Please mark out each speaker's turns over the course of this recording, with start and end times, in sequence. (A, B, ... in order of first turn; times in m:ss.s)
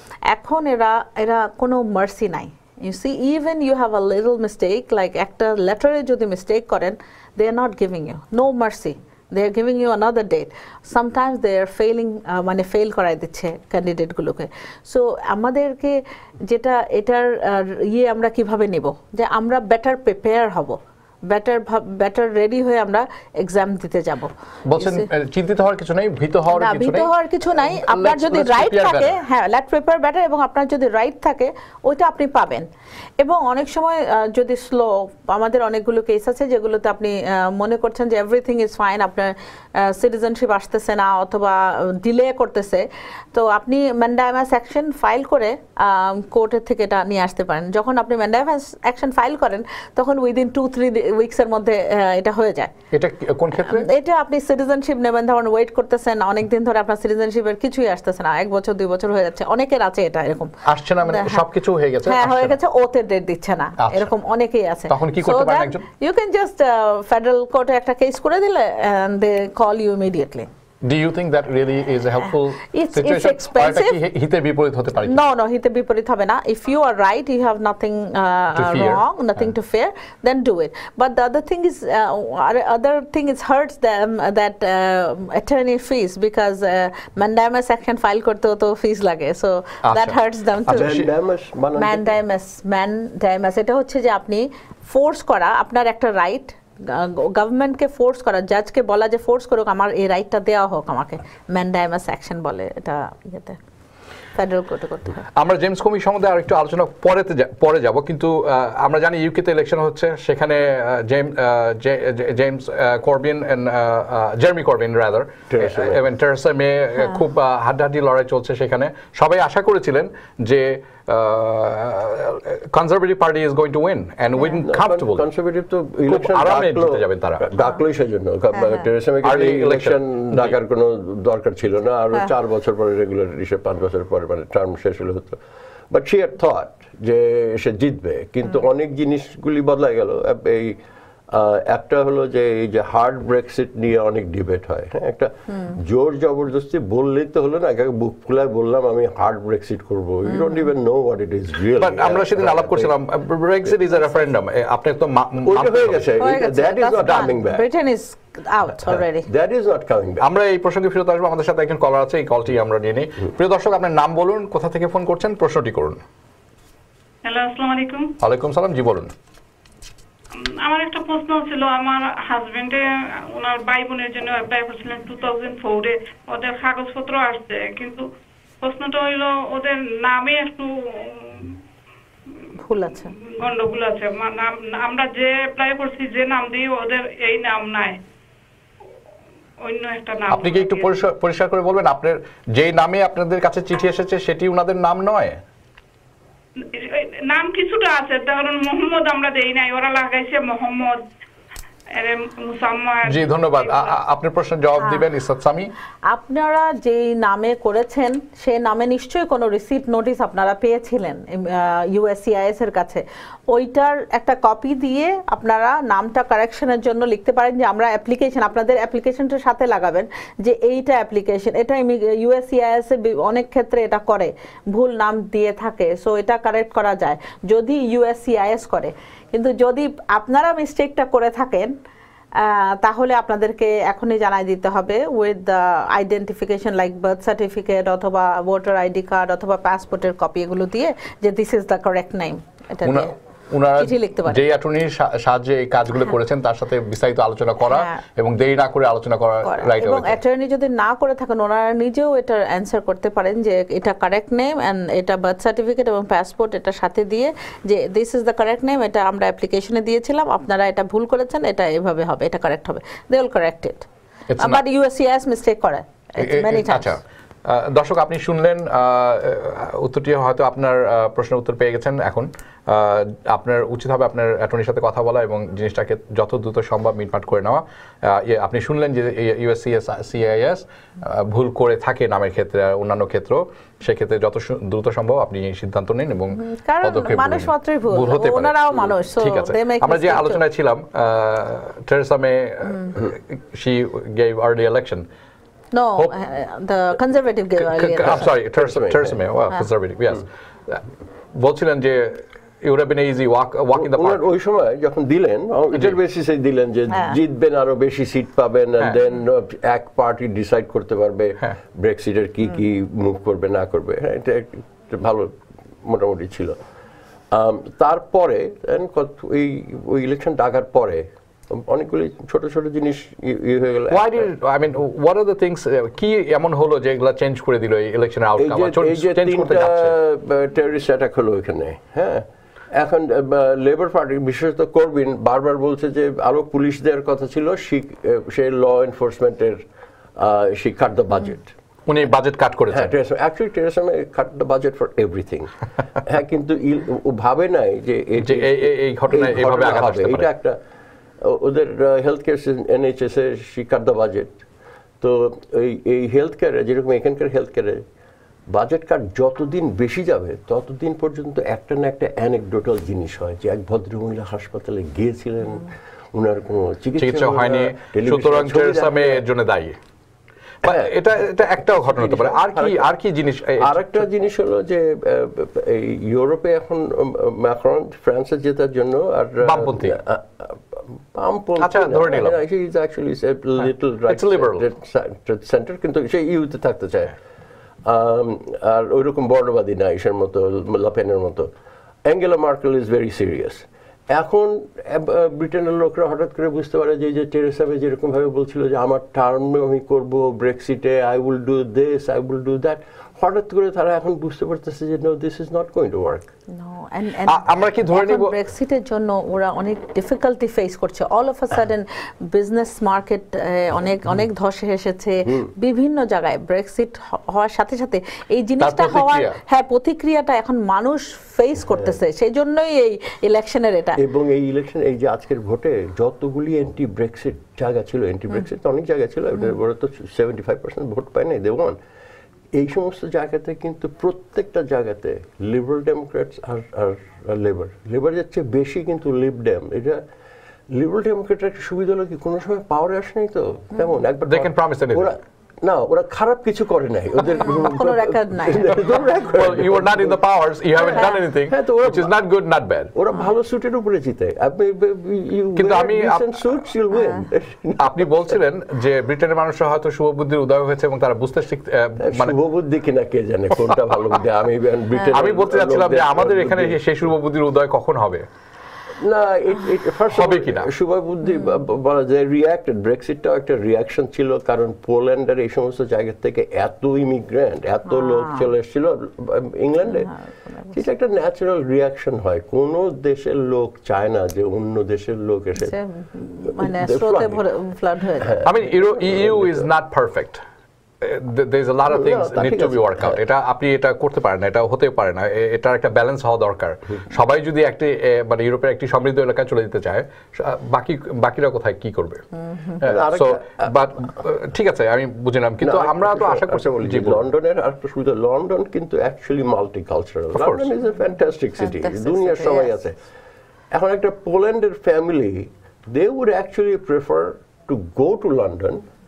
0:00.3-0:20.8 A
0:21.3-0:25.0 A
0:24.7-0:29.2 B
0:26.5-0:32.7 A
0:33.2-0:52.7 A
0:52.9-0:53.9 B
0:53.7-1:00.5 A
1:00.7-1:02.6 B
1:01.1-1:01.4 A
1:02.0-1:10.5 A
1:03.8-1:04.1 B
1:04.9-1:05.8 B
1:10.8-1:15.2 B
1:12.7-1:14.0 A
1:15.1-1:30.9 A
1:18.6-1:19.0 B
1:29.9-1:30.2 B
1:30.7-1:31.1 B
1:30.7-1:32.2 C
1:31.8-1:43.6 A
1:44.4-1:45.3 A
1:45.4-2:05.3 B
1:55.5-1:56.0 C
2:04.6-2:15.4 C
2:06.1-2:07.4 B
2:08.6-2:08.8 A
2:09.2-2:10.6 B
2:15.9-2:20.8 C
2:21.3-2:32.9 C
2:30.3-2:30.6 A
2:31.8-2:36.1 B
2:35.4-2:37.6 C
2:36.2-2:39.3 A
2:38.8-2:40.2 C
2:40.2-2:46.0 B
2:47.2-2:48.1 D
2:48.2-2:49.1 B
2:50.4-2:58.1 D
2:58.6-3:01.5 D
3:02.6-3:03.1 A
3:03.0-3:08.0 D
3:09.6-3:10.9 D
3:10.3-3:15.4 B
3:16.6-3:21.0 D
3:21.9-3:23.9 D
3:23.1-3:25.7 B
3:24.8-3:25.1 A
3:26.1-3:51.7 A
3:52.4-4:03.1 A
4:02.8-4:10.2 B
4:03.8-4:04.4 A
4:07.6-4:08.0 A
4:09.4-4:23.9 A
4:24.3-4:24.6 B
4:24.4-4:27.0 A
4:26.2-4:48.6 B
4:46.4-4:50.4 A
4:49.2-4:55.1 B
4:55.7-4:58.3 A
4:57.7-5:00.8 B
4:58.6-4:59.2 C
5:01.4-5:04.2 B
5:03.7-5:16.6 C
5:06.9-5:07.2 A
5:17.3-5:24.3 C
5:23.9-5:29.9 B
5:28.4-5:39.6 C
5:40.2-5:41.5 C
5:41.9-5:42.9 B
5:42.7-5:45.5 C
5:46.0-5:50.6 C
5:48.2-5:50.3 B
5:51.2-5:54.4 C
5:55.0-5:57.8 C
5:58.5-6:09.2 C
6:07.0-6:09.8 B
6:10.6-6:12.9 C
6:10.6-6:14.1 B
6:13.6-6:27.2 C
6:19.4-6:20.0 B
6:21.6-6:22.4 B
6:24.1-6:24.6 B
6:27.8-6:31.5 C
6:32.0-6:46.3 C
6:46.5-7:04.0 A
6:47.3-6:48.4 B
6:55.2-6:55.5 C
6:58.6-6:59.4 B
7:04.0-7:11.8 C
7:12.5-7:20.0 C
7:20.7-7:30.2 C
7:24.2-7:25.1 B
7:27.4-7:28.8 A
7:29.3-7:32.9 B
7:30.8-7:32.1 C
7:32.9-7:38.4 C
7:35.6-7:36.3 B
7:37.8-7:42.4 B
7:42.0-7:46.8 C
7:45.1-7:48.2 B
7:49.0-8:00.1 C
7:50.1-7:50.7 B
7:57.9-7:58.5 A
7:59.9-8:00.8 A
8:00.7-8:05.8 C
8:05.6-8:08.4 A
8:06.5-8:07.4 C
8:08.2-8:09.7 C
8:08.4-8:10.4 B
8:11.0-8:22.2 B
8:11.9-8:13.2 C
8:22.5-8:22.8 A
8:22.8-8:27.2 B
8:22.8-8:23.7 C
8:25.6-8:33.0 C
8:30.3-8:30.7 B
8:31.6-8:32.8 A
8:33.7-8:38.8 C